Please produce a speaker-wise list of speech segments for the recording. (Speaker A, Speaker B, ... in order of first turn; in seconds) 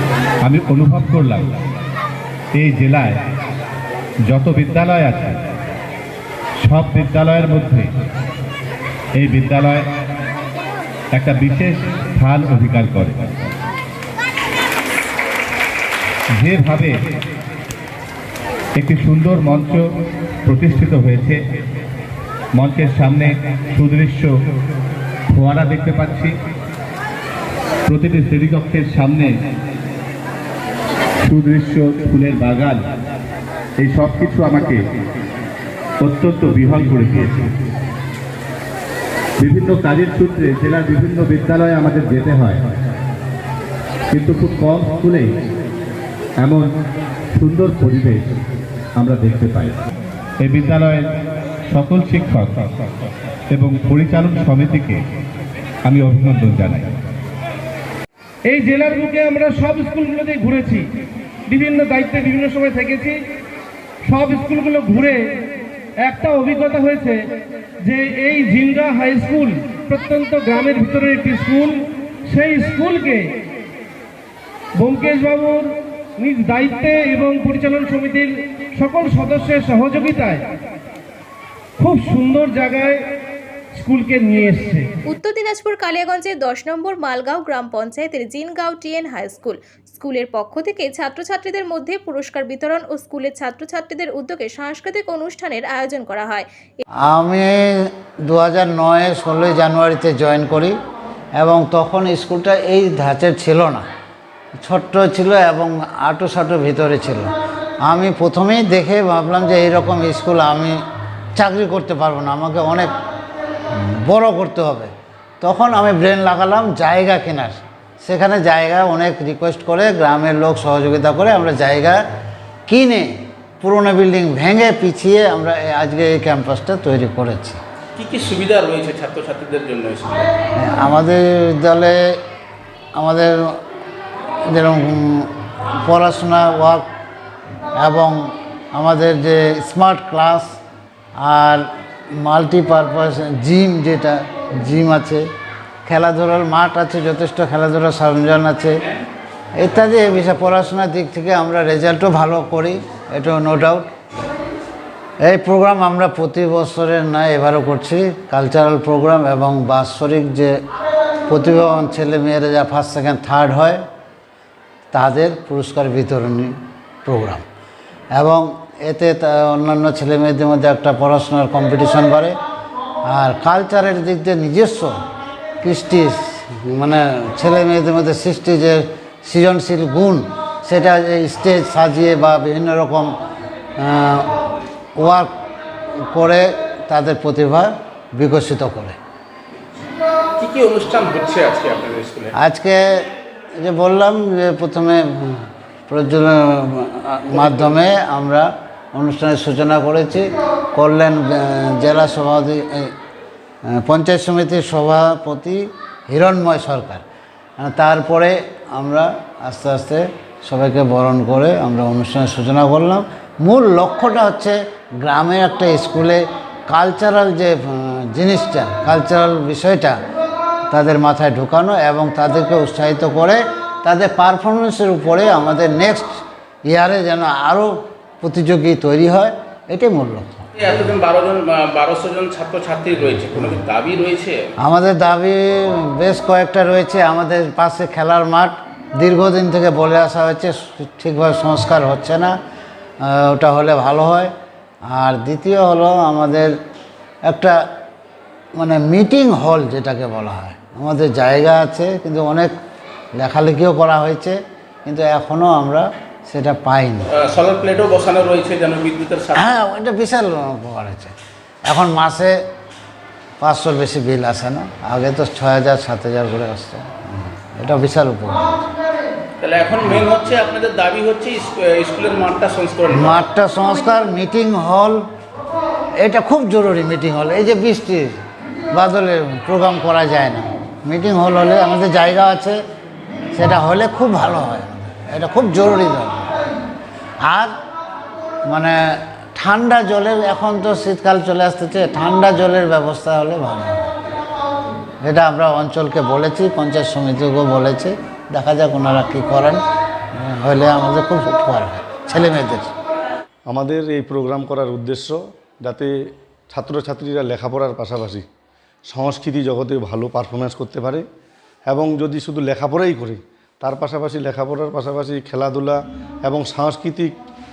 Speaker A: 0.4-1.5, 2.5-3.2, 4.3-5.4, 6.6-7.9, 9.2-9.9, 11.1-13.4, 16.4-16.9, 18.8-19.9, 20.5-21.4, 22.5-24.3, 25.3-26.3, 27.9-29.3, 31.2-32.8, 33.8-34.8, 36.0-37.5, 39.4-42.6, 44.1-45.3, 47.3-48.3, 49.0-49.8, 50.4-51.1, 51.7-52.7, 53.5-55.0, 55.9-56.9
Speaker B: 58.5-60.8, 61.5-63.2, 64.0-65.2, 66.0-67.2, 67.8-73.3, 74.8-80.4, 81.8-83.0, 83.8-84.9
Speaker C: 85.1-96.8
Speaker D: 97.1-100.8, 101.4-103.8, 104.6-107.3, 107.8-110.8, 111.4-112.9, 113.9-122.0, 122.7-127.6, 130.6-132.0, 133.0-133.6, 134.5-135.3, 135.8-136.8, 137.8-140.5, 141.2-141.6, 142.2-145.2, 145.8-148.8, 149.6-153.9, 155.2-160.6, 161.3-163.8, 164.9-166.5, 167.1-167.4, 168.1-172.3, 173.1-174.9, 175.6-183.1, 183.8-184.3, 185.0-185.3, 186.1-189.0, 192.4-193.0, 193.6-202.9, 203.7-207.0, 207.6-219.9, 220.7-230.5, 234.6-242.3, 243.0-244.3, 244.9-246.5, 247.3-247.6, 248.6-252.5, 253.2-257.1, 259.4-261.1, 261.7-262.3, 263.4-268.7, 272.9-275.0, 276.0-278.1, 278.7-282.6, 283.3-286.4, 287.2-287.5, 288.5-288.8, 289.4-293.9, 295.0-299.6, 300.2-302.7
Speaker E: 128.0-130.3, 190.4-192.3, 230.6-234.3, 257.1-259.5, 269.4-273.2
Speaker F: 303.5-305.9, 306.5-308.2, 308.9-311.1, 311.7-317.1